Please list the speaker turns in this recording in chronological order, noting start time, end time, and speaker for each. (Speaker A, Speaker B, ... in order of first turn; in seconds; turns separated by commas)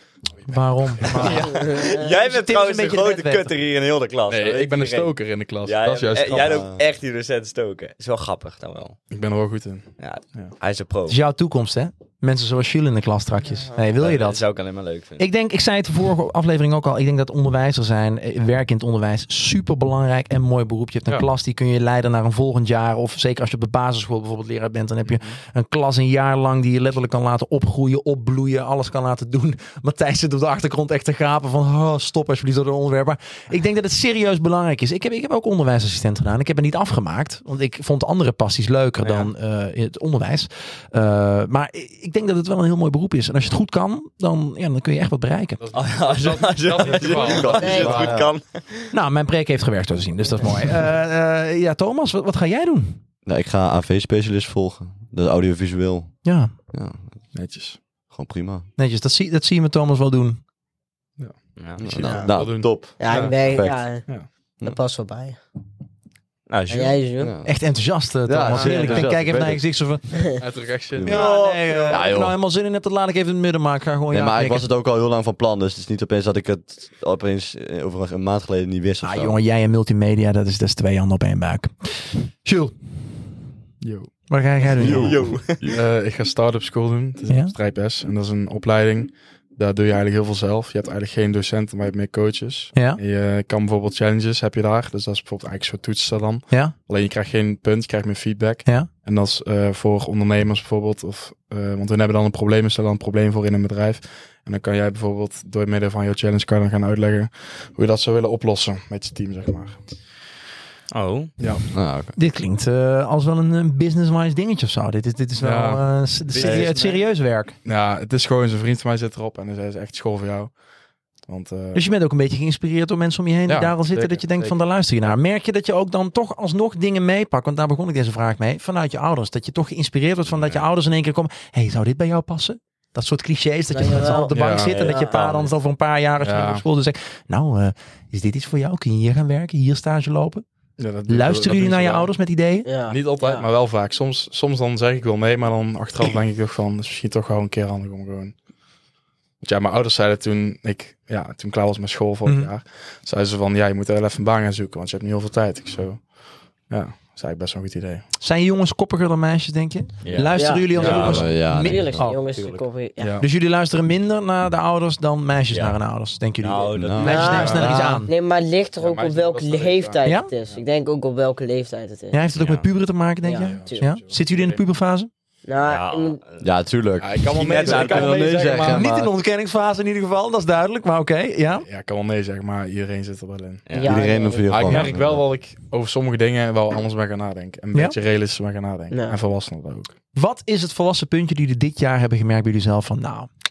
Speaker A: 0.3-1.5, Speaker B: 0.5-3.5, Speaker C: 1.1-9.0, Speaker D: 1.5-2.1, Speaker A: 4.3-6.7, Speaker E: 6.4-6.8, Speaker A: 9.1-10.5, Speaker C: 10.0-11.2, Speaker B: 11.1-14.5, Speaker C: 14.0-15.2, Speaker B: 15.2-45.6, Speaker A: 25.1-25.4, Speaker C: 39.0-39.3, Speaker A: 45.6-48.3, Speaker C: 45.7-48.9, Speaker E: 47.0-48.3, Speaker D: 47.5-48.1, Speaker B: 48.9-53.0, Speaker E: 53.3-56.2, Speaker B: 56.2-56.5, Speaker E: 56.7-57.0, Speaker A: 57.3-57.8, Speaker E: 58.1-58.7, Speaker B: 58.8-60.4, Speaker A: 61.2-64.3, Speaker C: 61.6-62.1, Speaker E: 61.8-64.0, Speaker D: 62.1-62.4, Speaker D: 63.0-64.1, Speaker D: 64.6-65.4, Speaker C: 66.5-67.0, Speaker D: 66.7-67.3, Speaker E: 67.2-67.5, Speaker B: 67.5-70.4, Speaker E: 68.3-69.7, Speaker A: 68.5-69.1, Speaker A: 70.4-71.2, Speaker E: 71.0-72.4, Speaker B: 71.0-74.7, Speaker D: 71.2-71.8, Speaker E: 74.1-79.4, Speaker B: 79.0-82.8, Speaker A: 83.8-84.3, Speaker B: 84.3-85.2, Speaker C: 84.8-85.6, Speaker E: 84.8-85.8, Speaker A: 84.8-85.1, Speaker A: 85.6-109.8, Speaker B: 87.3-87.5, Speaker B: 92.8-93.0, Speaker C: 110.9-111.3, Speaker A: 111.4-111.7, Speaker E: 111.7-112.2, Speaker B: 112.2-117.6, Speaker A: 115.4-116.8, Speaker C: 116.3-117.0, Speaker A: 117.6-120.6, Speaker A: 121.2-121.8, Speaker B: 121.7-140.4, Speaker A: 123.5-125.2, Speaker A: 130.3-130.6, Speaker D: 133.7-135.3, Speaker A: 134.3-134.9, Speaker C: 134.7-135.5, Speaker A: 136.2-136.6, Speaker A: 140.8-142.1, Speaker B: 141.1-142.7, Speaker D: 142.7-143.5, Speaker A: 142.9-148.4, Speaker A: 149.4-156.1, Speaker B: 152.2-152.5, Speaker A: 156.7-158.1, Speaker B: 158.2-162.3, Speaker C: 160.0-161.2, Speaker D: 160.4-163.2, Speaker A: 160.8-161.2, Speaker E: 160.8-162.1, Speaker A: 163.0-163.3, Speaker B: 163.2-168.1, Speaker C: 165.5-165.8, Speaker C: 166.4-167.6, Speaker E: 166.8-168.0, Speaker D: 167.0-172.2, Speaker A: 167.2-167.8, Speaker A: 168.8-170.6, Speaker B: 172.1-175.1, Speaker C: 172.3-172.7, Speaker D: 173.2-173.9, Speaker A: 173.4-174.6, Speaker D: 175.4-176.2, Speaker C: 175.6-176.5, Speaker E: 176.4-179.1, Speaker A: 177.0-178.9, Speaker C: 177.3-178.6, Speaker B: 178.6-181.7, Speaker A: 181.6-183.7, Speaker C: 183.7-184.0, Speaker D: 183.7-184.8, Speaker E: 183.8-185.2, Speaker A: 184.5-189.9, Speaker D: 188.9-189.2, Speaker B: 190.2-193.3